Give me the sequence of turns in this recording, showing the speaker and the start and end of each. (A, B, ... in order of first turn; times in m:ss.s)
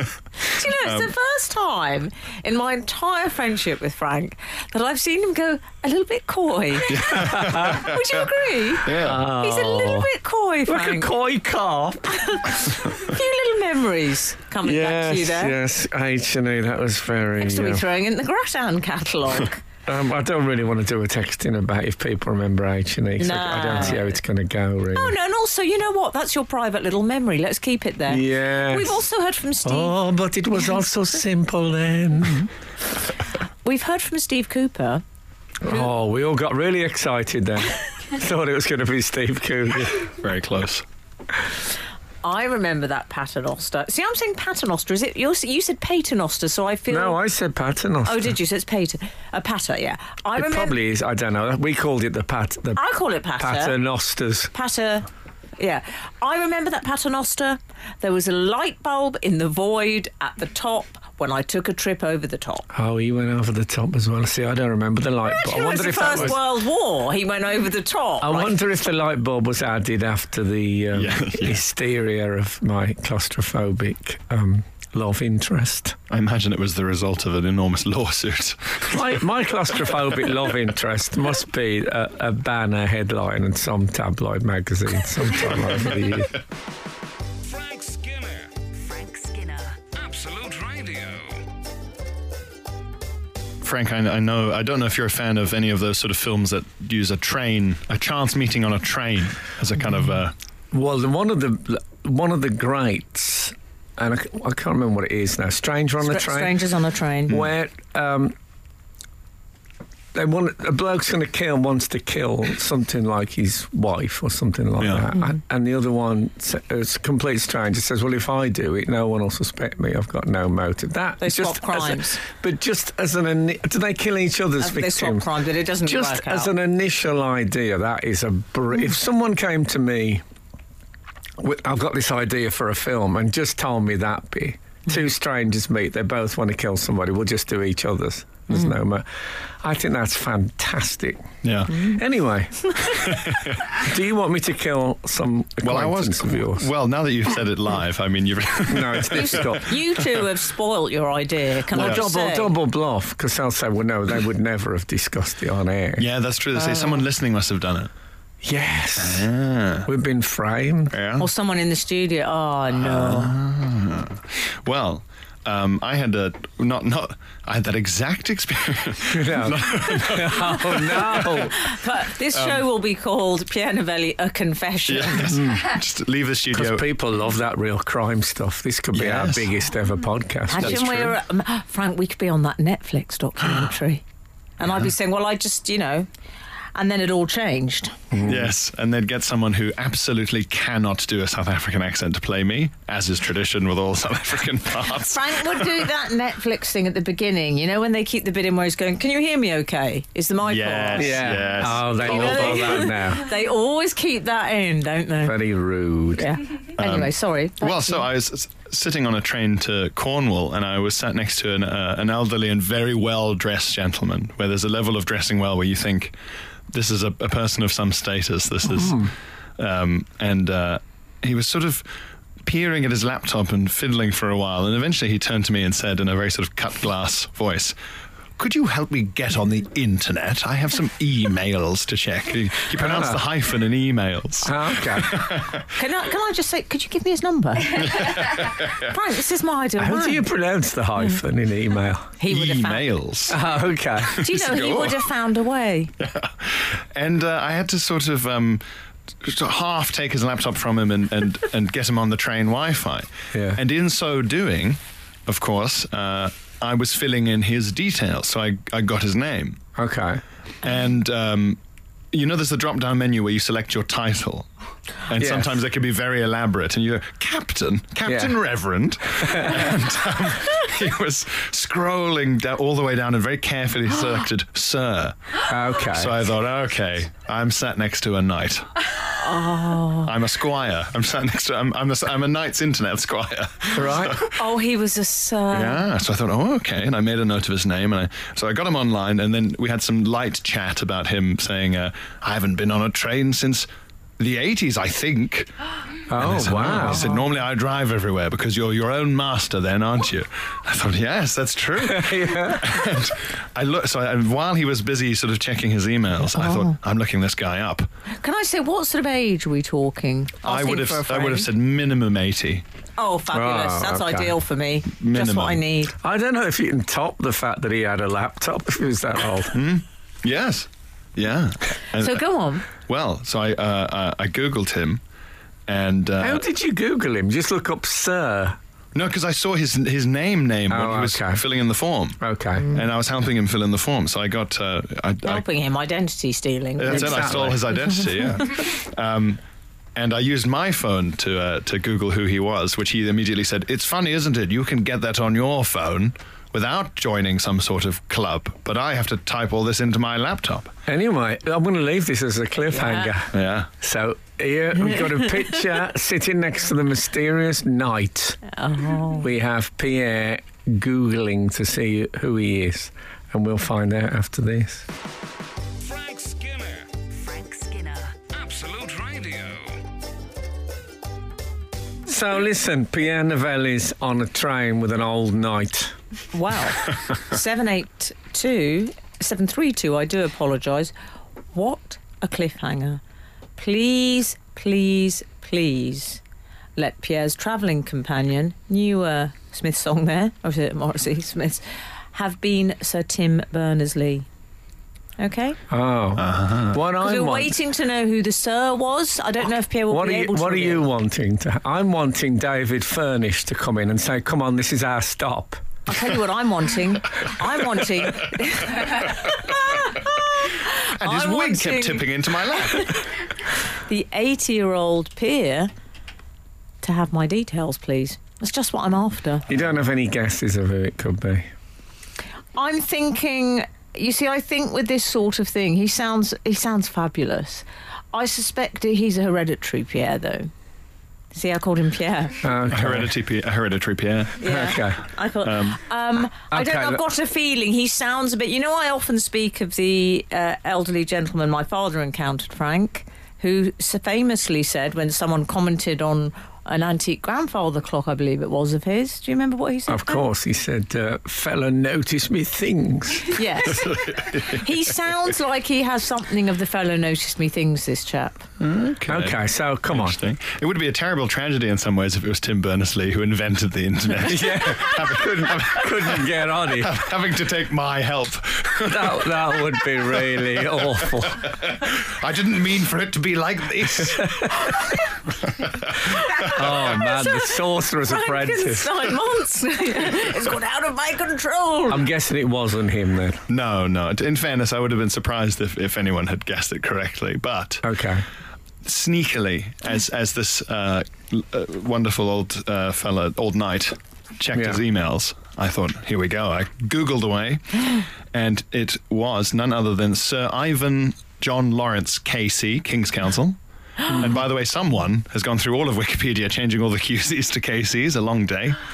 0:00.4-0:11.1 A
0:06.9-0:08.0 B
0:07.1-0:07.8 C
0:08.8-0:09.2 B
0:09.0-0:10.1 C
0:10.7-0:12.4 C
0:12.1-0:15.6 A
0:14.6-0:17.8 C
0:17.4-0:19.6 A
0:19.8-0:25.1 C
0:23.2-0:24.1 A
0:24.9-0:30.0 A
0:28.1-0:29.0 C
0:29.6-0:32.5 C
0:33.6-0:35.0 A
0:35.6-0:40.0 C
0:39.8-0:40.8 B
0:42.2-0:47.2 A
0:46.9-0:48.3 C
0:48.0-0:50.8 A
0:50.3-0:52.8 C
0:52.8-0:53.8 A
0:53.4-0:54.5 C
0:54.5-0:55.1 A
0:55.6-1:02.6 A
1:02.7-1:06.4 C
1:05.3-1:08.6 A
1:08.2-1:16.0 C
1:10.9-1:11.6 B
1:16.1-1:19.1 B
1:18.9-1:26.4 C
1:27.4-1:28.5 D
1:28.7-1:29.8 E
1:29.9-1:31.4 D
1:33.6-1:40.3 B
1:40.7-1:46.6 C
1:46.0-1:47.4 A
1:47.3-1:48.3 C
1:50.1-2:05.3 C
1:54.8-1:55.0 B
2:01.2-2:02.2 A
2:04.6-2:06.5 A
2:05.8-2:10.2 C
2:11.4-2:23.2 C
2:21.4-2:21.9 B
2:22.9-2:23.6 B
2:23.7-2:26.7 C
2:25.6-2:29.6 B
2:28.7-2:29.7 C
2:29.1-2:32.5 A
2:31.7-2:36.0 C
2:31.8-2:32.0 B
2:36.0-2:37.9 B
2:36.6-2:37.0 A
2:38.4-2:39.3 C
2:39.0-2:39.9 B
2:39.8-2:40.9 C
2:40.9-2:41.3 B
2:41.2-2:43.3 A
2:42.7-2:51.5 B
2:49.1-2:51.6 C
2:51.1-2:55.4 A
2:52.3-2:52.6 B
2:54.9-2:56.9 B
2:55.3-2:55.7 C
2:56.5-3:01.1 C
2:58.9-2:59.5 B
3:00.5-3:04.0 A
3:00.6-3:01.1 B
3:04.6-3:06.1 A
3:06.7-3:08.0 A
3:08.1-3:08.5 C
3:08.2-3:15.9 B
3:15.1-3:25.4 A
3:20.4-3:22.8 B
3:21.0-3:23.3 C
3:25.2-3:26.3 C
3:26.2-3:28.1 A
3:26.8-3:36.1 B
3:36.7-3:41.9 B
3:38.7-3:39.1 C
3:42.4-3:47.7 B
3:48.4-3:55.7 B
3:52.8-3:53.2 C
3:54.4-3:55.4 C
3:55.7-4:00.2 A
3:57.8-3:58.9 B
3:59.8-4:02.1 C
4:02.2-4:02.9 A
4:02.3-4:03.4 B
4:03.3-4:04.2 C
4:04.2-4:05.9 A
4:04.2-4:05.0 B
4:06.0-4:08.6 B
4:09.2-4:19.6 B
4:13.3-4:13.6 C
4:19.8-4:20.2 C
4:20.6-4:21.6 B
4:22.1-4:24.5 B
4:25.1-4:38.9 B
4:25.2-4:25.5 C
4:28.0-4:28.3 C
4:29.2-4:29.6 C
4:35.5-4:36.2 C
4:39.2-4:40.1 A
4:40.0-4:44.3 B
4:43.7-4:44.2 C
4:44.1-4:45.8 A
4:45.5-4:53.7 B
4:54.2-4:55.5 B
4:56.1-4:57.2 C
4:56.1-5:07.9 B
5:01.8-5:02.9 C
5:06.3-5:06.8 A
5:08.1-5:11.5 A
5:10.4-5:12.6 B
5:13.0-5:15.9 A
5:13.3-5:14.3 C
5:15.0-5:15.6 B
5:16.0-5:19.6 C
5:19.5-5:25.0 B
5:22.0-5:22.7 A
5:25.7-5:26.4 B
5:26.2-5:28.6 C
5:28.9-5:35.4 B
5:30.7-5:31.4 C
5:32.2-5:32.7 C
5:35.2-5:37.5 A
5:36.8-5:39.4 B
5:36.9-5:37.6 C
5:39.9-5:50.7 B
5:50.9-5:58.4 C
5:52.7-5:53.1 A
5:53.3-5:53.7 B
5:58.5-5:59.3 A
5:59.2-6:04.8 C
6:05.8-6:06.9 D
6:07.1-6:08.2 E
6:08.3-6:09.8 D
6:12.0-6:15.9 C
6:16.3-6:20.9 A
6:21.5-6:23.0 A
6:23.6-6:26.2 A
6:26.8-6:34.3 A
6:35.2-6:35.6 A
6:35.7-6:37.6 C
6:36.2-6:36.8 B
6:37.0-6:40.8 A
6:39.9-6:45.6 C
6:45.9-6:53.0 A
6:51.0-6:53.0 B
6:53.7-6:55.7 A
6:56.8-6:59.5 A
6:59.5-7:01.5 C
7:02.6-7:10.5 A
7:11.3-7:12.5 A
7:12.4-7:13.1 C
7:12.7-7:14.6 B
7:14.4-7:30.2 A
7:14.4-7:15.0 C
7:15.4-7:15.8 B
7:16.5-7:17.0 C
7:29.9-7:33.4 C
7:33.3-7:38.5 A
7:33.8-7:34.6 B
7:38.6-7:54.8 B
7:39.1-7:40.2 C
7:44.2-7:47.0 C
7:48.8-7:51.5 C
7:54.0-7:54.7 C
7:55.5-7:56.9 B
7:56.3-8:02.1 A
7:56.5-7:59.0 C
8:01.9-8:03.4 C
8:03.5-8:07.8 B
8:07.8-8:08.2 C
8:08.8-8:23.6 B
8:14.5-8:14.8 C
8:24.1-8:28.8 B